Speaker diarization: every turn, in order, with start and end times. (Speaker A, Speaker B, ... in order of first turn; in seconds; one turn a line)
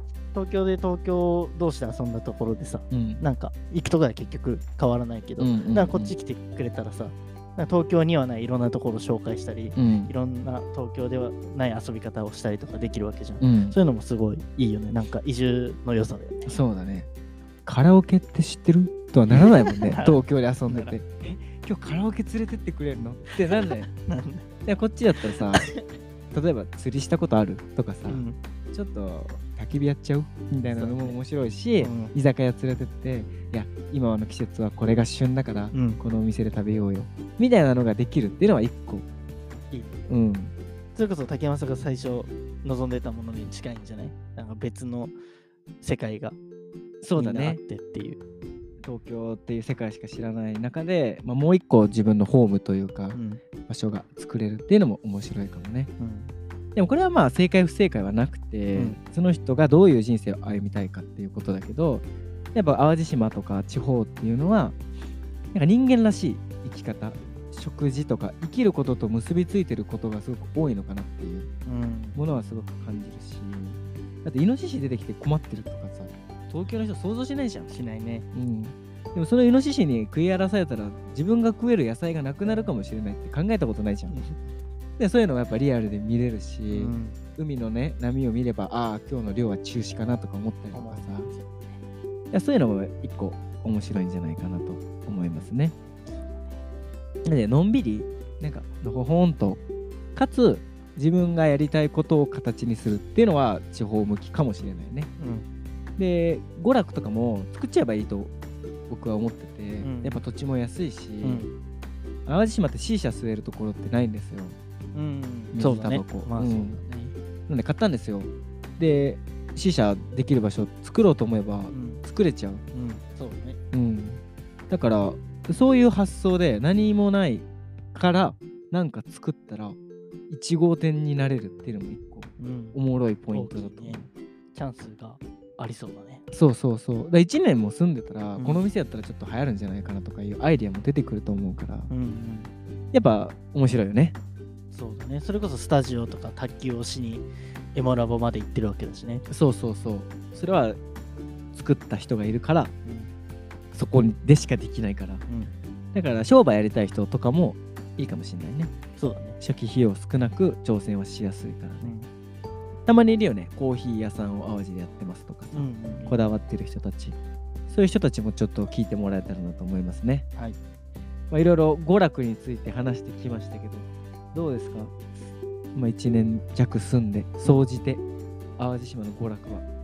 Speaker A: 0.3-16.6
Speaker B: 2.9-3.2
Speaker B: 5.4-6.2
Speaker B: 9.8-10.1
Speaker B: 13.4-13.8
Speaker B: 16.5-17.1
Speaker B: 17.6-23.9
Speaker A: 19.4-21.0
Speaker A: 23.3-24.5
Speaker B: 24.7-25.7
Speaker A: 25.2-25.9
Speaker B: 26.3-39.1
Speaker A: 28.1-28.4
Speaker A: 30.7-31.2
Speaker A: 31.8-32.1
Speaker A: 35.7-36.0
Speaker A: 39.7-40.0
Speaker B: 40.1-40.5
Speaker A: 41.0-45.2
Speaker A: 45.8-46.4
Speaker B: 47.0-47.6
Speaker A: 47.2-48.2
Speaker B: 48.8-55.9
Speaker A: 53.1-53.4
Speaker A: 56.0-56.3
Speaker B: 56.8-64.8
Speaker B: 65.5-71.5
Speaker A: 71.7-72.2
Speaker B: 72.2-77.7
Speaker A: 77.7-78.3
Speaker B: 78.3-84.2
Speaker A: 84.1-84.5
Speaker B: 85.0-91.3
Speaker A: 86.7-87.2
Speaker A: 90.7-91.8
Speaker B: 92.3-95.8
Speaker A: 96.1-96.6
Speaker B: 97.2-99.6
Speaker B: 100.2-105.1
Speaker A: 105.2-105.5
Speaker B: 106.0-108.3
Speaker B: 108.9-111.5
Speaker A: 109.8-110.2
Speaker A: 111.2-111.5
Speaker B: 112.3-114.6
Speaker A: 114.9-117.2
Speaker B: 115.5-116.8
Speaker B: 117.5-122.6
Speaker A: 121.7-122.0
Speaker A: 122.7-123.6
Speaker B: 123.7-129.8
Speaker B: 130.3-134.1
Speaker A: 132.4-132.8
Speaker A: 133.3-134.0
Speaker A: 134.5-136.2
Speaker B: 136.3-141.9
Speaker A: 138.4-138.7
Speaker A: 141.9-142.5
Speaker B: 142.9-144.2
Speaker A: 144.7-149.2
Speaker B: 149.3-150.8
Speaker B: 151.5-152.7
Speaker A: 152.8-153.1
Speaker B: 153.7-155.2
Speaker A: 155.3-155.5
Speaker B: 155.9-158.7
Speaker A: 159.0-159.4
Speaker B: 159.4-161.9
Speaker A: 161.8-162.1
Speaker B: 162.9-167.2
Speaker A: 165.5-166.2
Speaker B: 167.7-170.2
Speaker B: 171.3-174.9
Speaker B: 175.8-178.0
Speaker B: 178.6-179.6